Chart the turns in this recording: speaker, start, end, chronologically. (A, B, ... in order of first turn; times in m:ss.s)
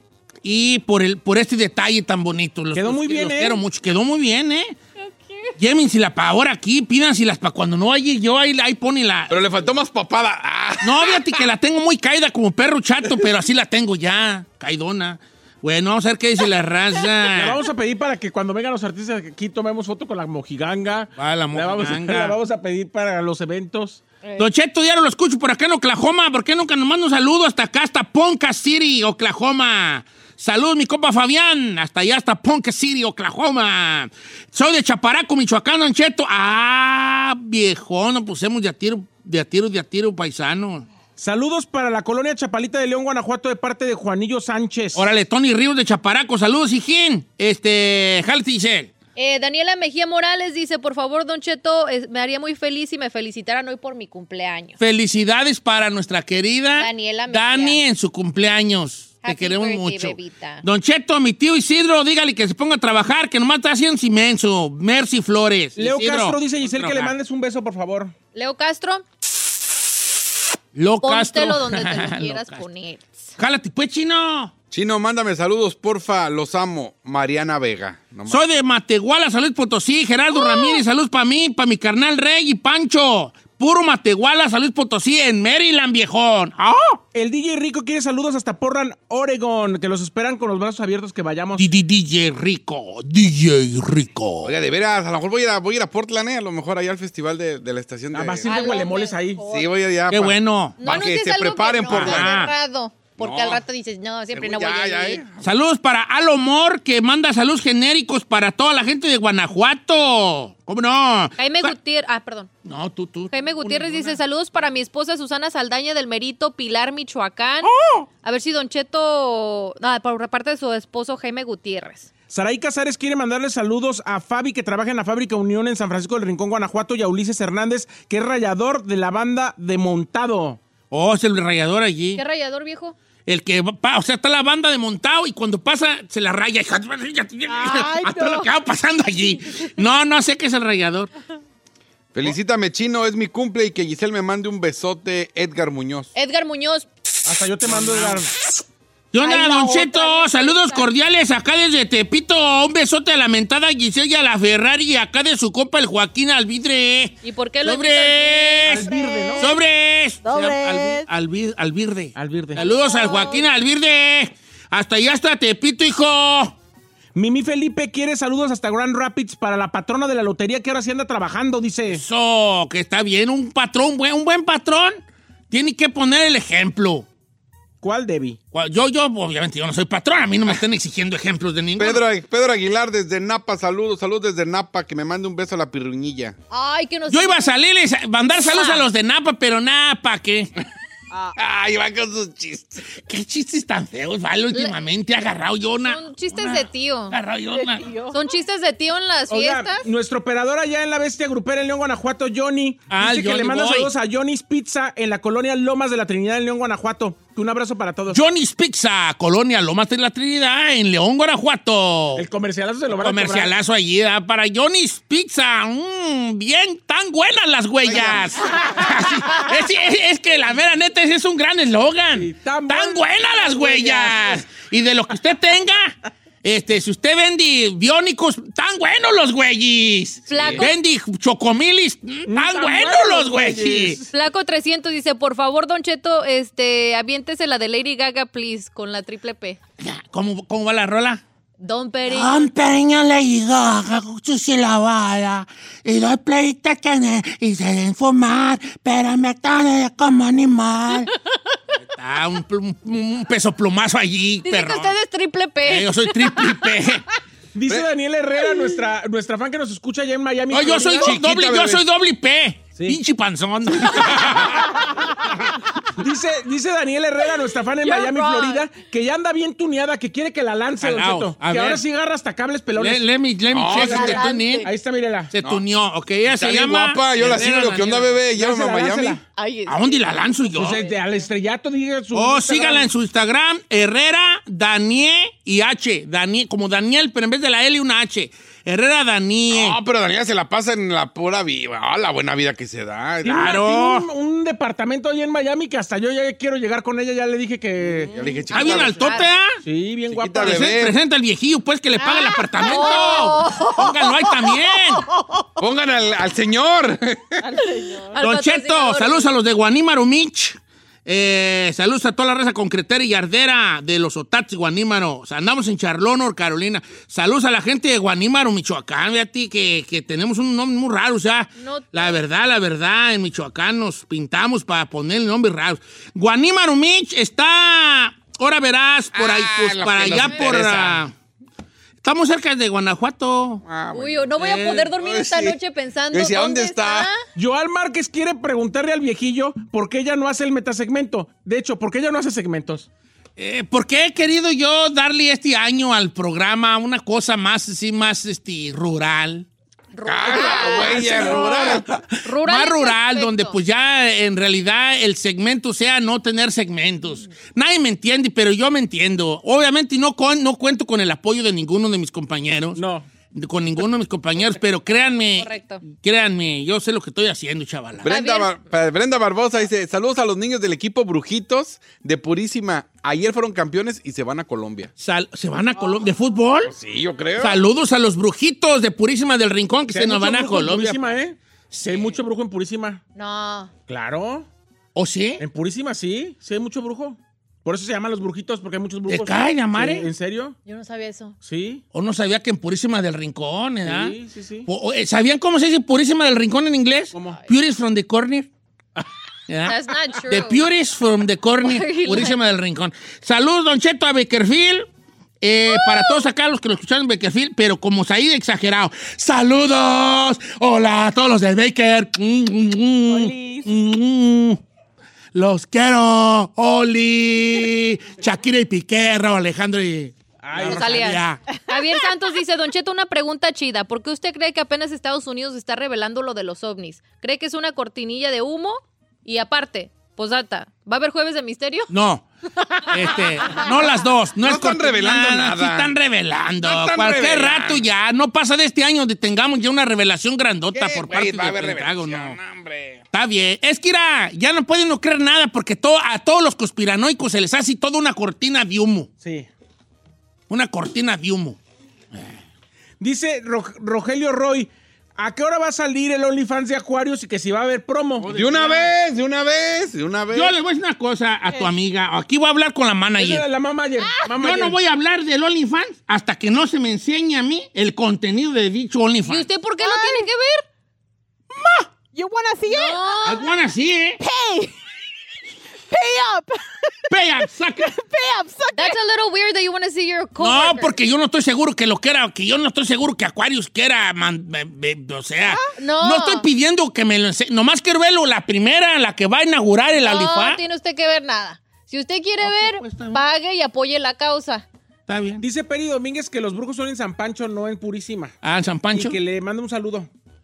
0:00.4-0:04.8 A
0:02.7-0:03.6 B
0:05.0-0:05.5 C
0:05.6-0:09.7 A
0:09.3-0:11.4 D
0:10.8-0:17.6 A
0:17.3-0:24.0 B
0:21.2-0:22.4 A
0:24.4-0:40.9 A
0:41.2-0:45.0 B
0:44.9-0:48.9 A
0:49.2-0:54.8 C
0:54.8-1:07.1 A
0:56.7-0:57.8 C
0:59.2-1:00.6 C
1:05.8-1:08.1 B
1:08.3-1:09.0 C
1:10.7-1:12.6 A
1:11.0-1:13.3 C
1:13.4-1:14.5 A
1:14.7-1:18.4 D
1:18.3-1:27.0 A
1:20.3-1:20.8 C
1:27.1-1:31.6 B
1:31.6-1:34.5 A
1:34.4-1:38.8 D
1:38.1-1:39.4 B
1:38.5-1:39.6 C
1:39.4-1:42.3 D
1:40.1-1:40.8 A
1:40.8-1:45.2 C
1:41.9-1:42.5 A
1:43.2-1:43.6 D
1:44.3-1:45.4 D
1:45.4-1:51.7 A
1:51.4-1:52.5 C
1:52.6-1:54.2 A
1:53.3-1:57.7 C
1:57.7-1:58.0 B
1:58.2-2:02.1 C
2:02.3-2:10.6 B
2:10.9-2:12.2 A
2:12.1-2:13.0 C
2:13.2-2:21.1 A
2:17.5-2:18.5 E
2:22.1-2:26.1 D
2:26.1-2:26.9 C
2:27.2-2:28.3 B
2:27.6-2:28.5 A
2:29.1-2:46.5 A
2:29.2-2:30.9 C
2:37.2-2:39.4 C
2:38.6-2:39.5 B
2:40.2-2:41.0 E
2:42.1-2:42.6 B
2:42.6-2:43.4 C
2:47.1-2:52.0 B
2:51.9-2:55.0 A
2:55.5-2:57.0 A
2:57.8-2:58.4 B
2:58.5-3:02.0 A
3:01.8-3:06.3 D
3:06.5-3:07.5 C
3:07.1-3:10.5 A
3:08.3-3:08.8 C
3:11.4-3:12.9 D
3:12.9-3:17.9 A
3:15.8-3:17.2 C
3:17.5-3:18.2 E
3:18.1-3:19.9 C
3:19.3-3:28.2 B
3:22.9-3:23.9 A
3:28.1-3:32.2 A
3:32.2-3:33.5 B
3:32.9-3:54.0 A
3:37.8-3:38.9 D
3:42.1-3:44.4 B
3:50.3-3:50.7 C
3:50.3-3:50.6 D
3:52.3-3:54.1 B
3:54.1-3:59.6 C
3:59.8-4:01.2 A
4:01.6-4:02.5 C
4:02.0-4:11.1 A
4:11.8-4:14.9 A
4:14.4-4:16.5 C
4:15.6-4:17.0 A
4:17.5-4:21.1 B
4:20.5-4:24.7 A
4:21.0-4:21.8 D
4:22.7-4:23.0 B
4:24.0-4:24.7 D
4:26.0-4:33.0 B
4:27.8-4:28.6 C
4:30.8-4:31.8 A
4:32.8-4:34.7 A
4:33.5-4:34.3 D
4:33.7-4:35.3 B
4:33.8-4:34.7 C
4:35.3-4:38.2 A
4:36.3-4:39.2 D
4:38.3-4:39.2 B
4:39.4-4:41.2 C
4:39.6-4:40.8 A
4:40.5-4:42.9 B
4:42.1-4:49.8 A
4:49.5-4:53.5 D
4:53.2-4:54.1 A
4:53.2-4:58.2 B
4:57.8-4:59.2 D
4:58.1-4:58.4 E
4:58.5-4:59.3 C
4:58.5-4:59.6 A
4:59.6-5:00.8 B
5:00.1-5:00.9 D
5:00.4-5:05.0 A
5:02.0-5:03.3 E
5:02.6-5:04.1 C
5:05.6-5:07.4 D
5:07.4-5:08.2 E
5:08.1-5:09.3 C
5:08.2-5:31.1 A
5:21.6-5:22.2 C
5:29.1-5:31.0 D
5:32.0-5:33.6 A
5:33.6-5:34.3 D
5:33.9-5:37.2 C
5:34.4-5:34.9 A
5:34.9-5:35.6 D
5:36.1-5:37.1 D
5:37.3-5:42.9 B
5:43.4-5:49.5 A
5:49.9-5:53.6 C
5:50.0-5:51.9 D
5:50.4-5:51.8 B
5:50.8-5:51.4 A
5:52.2-6:02.8 A
6:02.7-6:03.1 B
6:03.3-6:08.1 A
6:05.4-6:05.8 C
6:08.0-6:14.9 D
6:08.0-6:08.5 C
6:15.0-6:16.7 A
6:16.6-6:17.6 D
6:17.4-6:21.2 A
6:19.9-6:23.0 B
6:21.7-6:22.2 A
6:23.1-6:23.7 C
6:23.9-6:24.5 B
6:24.9-6:25.4 A
6:25.4-6:30.6 B
6:29.1-6:30.1 A
6:30.6-6:31.4 C
6:31.4-6:31.8 B
6:31.9-6:38.5 A
6:33.8-6:34.7 B
6:37.1-6:37.4 B
6:39.5-6:44.9 A
6:39.6-6:40.6 C
6:41.6-6:42.4 C
6:45.4-6:54.6 A
6:45.7-6:46.2 C
6:53.1-6:53.7 E
6:55.3-7:01.4 A
7:00.4-7:01.0 B
7:00.7-7:11.9 C
7:11.9-7:22.4 A
7:14.4-7:15.9 D
7:16.6-7:17.8 D
7:20.7-7:23.0 D
7:23.1-7:29.1 A
7:29.2-7:29.5 B
7:30.5-7:31.6 A
7:33.0-7:38.9 B
7:38.2-7:40.5 D
7:40.3-7:43.4 A
7:43.2-7:44.8 B
7:44.4-7:49.5 A
7:49.2-7:50.6 C
7:49.8-7:50.3 E
7:52.1-7:53.2 E
7:52.6-7:53.5 C
7:53.2-7:54.2 A
7:54.2-7:54.7 E
7:55.9-7:57.1 E
7:57.1-7:58.0 A
7:57.8-7:59.0 E
7:58.7-8:01.0 C
8:00.4-8:10.6 A
8:05.7-8:06.4 C
8:09.9-8:14.6 C
8:12.4-8:13.2 A
8:15.1-8:15.4 A
8:15.4-8:18.4 B
8:18.4-8:19.2 A
8:18.9-8:20.1 B